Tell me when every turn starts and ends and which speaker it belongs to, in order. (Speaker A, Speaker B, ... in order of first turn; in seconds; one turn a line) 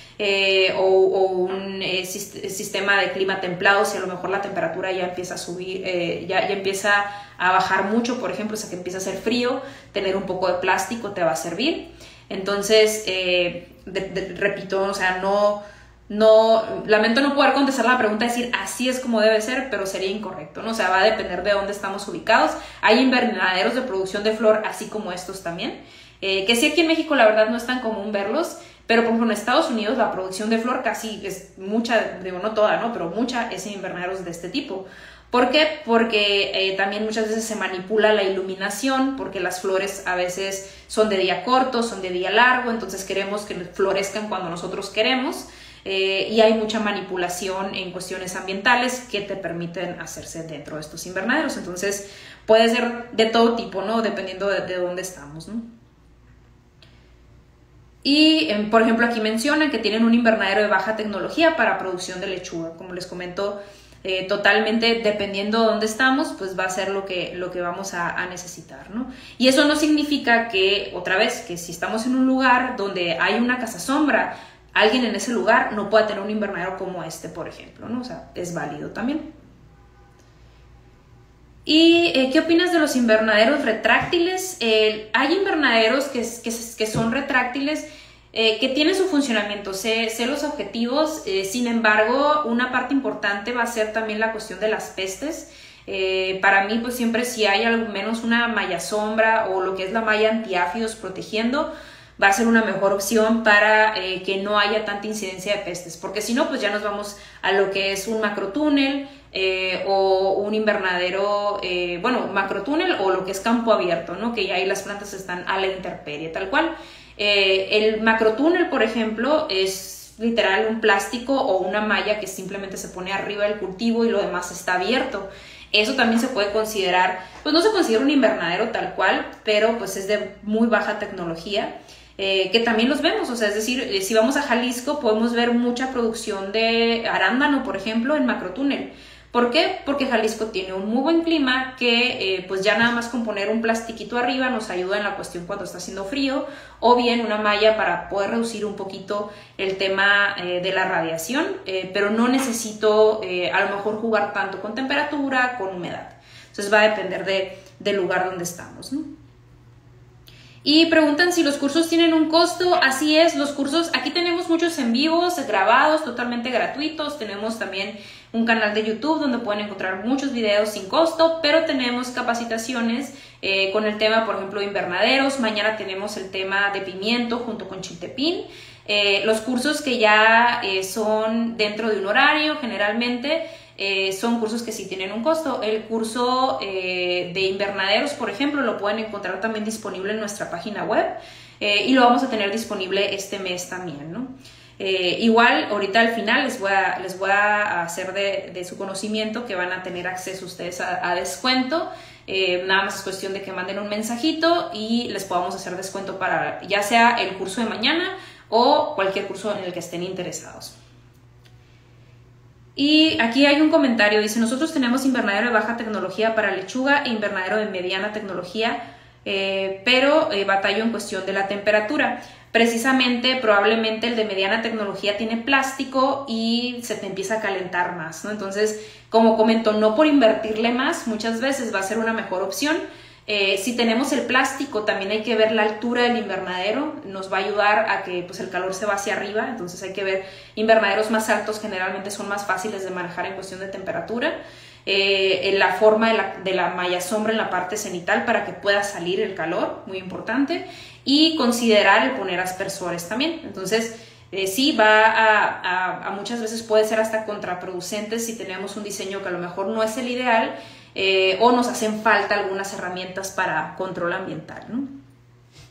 Speaker A: 0.2-55.6
Speaker A: 58.0-79.3
Speaker A: 81.7-159.1
Speaker A: 160.6-210.8
Speaker A: 212.8-244.3
Speaker A: 244.9-264.9